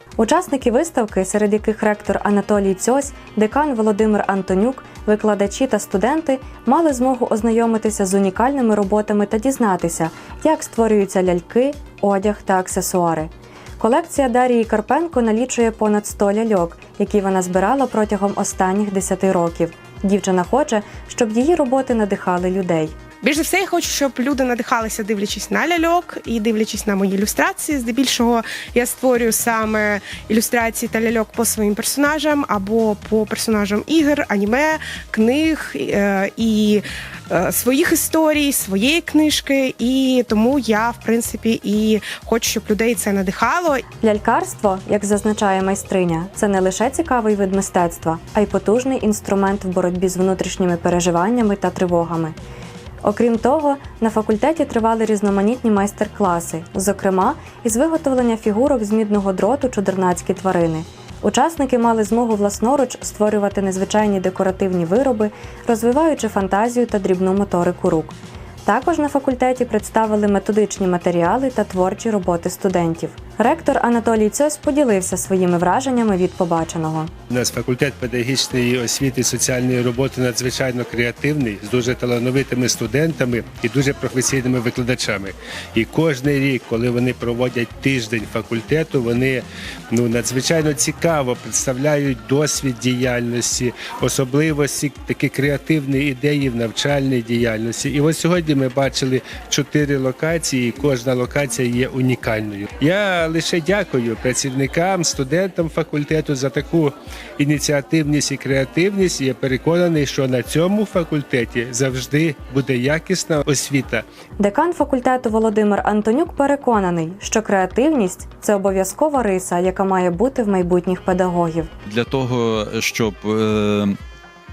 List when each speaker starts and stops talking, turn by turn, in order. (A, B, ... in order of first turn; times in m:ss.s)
0:00.2-0:22.9 A
0:23.2-0:43.8 B
0:44.0-0:52.3 A
0:53.0-1:17.1 A
1:17.3-1:54.0 C
1:54.4-2:01.7 A
2:01.8-2:04.0 D